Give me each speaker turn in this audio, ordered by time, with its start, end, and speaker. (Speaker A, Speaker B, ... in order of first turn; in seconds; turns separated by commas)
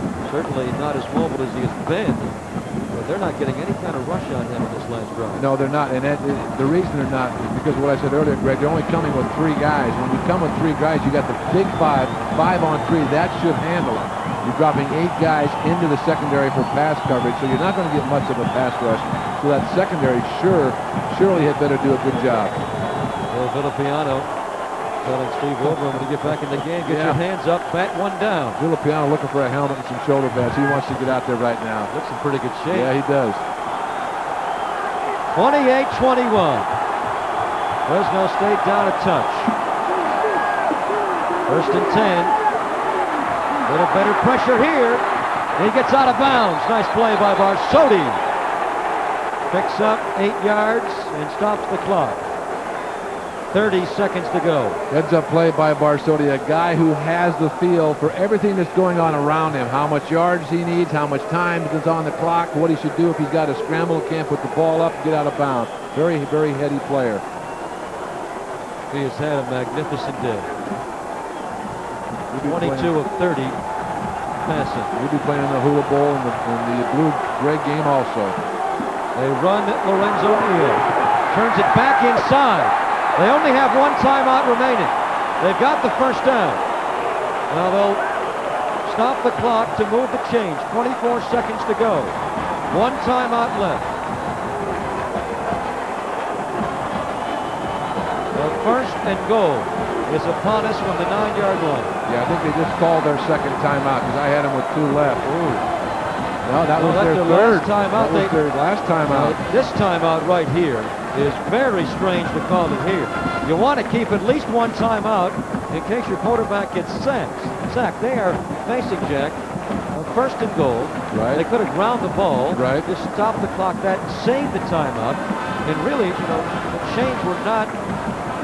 Speaker A: 0.2-2.4, Speaker A: 2.9-5.5, Speaker B: 5.3-22.6, Speaker A: 23.3-24.3, Speaker A: 25.0-28.6, Speaker B: 25.6-27.2, Speaker B: 28.6-31.9, Speaker A: 31.9-32.9, Speaker B: 32.7-33.4, Speaker A: 35.3-36.7, Speaker A: 37.9-39.5, Speaker A: 41.5-42.4, Speaker A: 43.6-45.0, Speaker A: 45.5-48.2, Speaker A: 49.5-52.2, Speaker A: 53.5-54.8, Speaker B: 54.9-67.2, Speaker A: 68.9-70.5, Speaker B: 72.3-72.9, Speaker A: 72.4-73.6, Speaker A: 74.4-74.9, Speaker B: 74.9-78.4, Speaker A: 79.1-86.6, Speaker A: 87.5-88.0, Speaker A: 88.8-92.2, Speaker A: 92.7-93.9, Speaker A: 98.3-101.9, Speaker B: 102.0-105.3, Speaker A: 105.2-105.6, Speaker B: 106.4-109.4, Speaker A: 106.8-108.4, Speaker A: 109.1-119.4, Speaker A: 119.9-127.7, Speaker B: 121.1-121.5, Speaker B: 122.5-122.9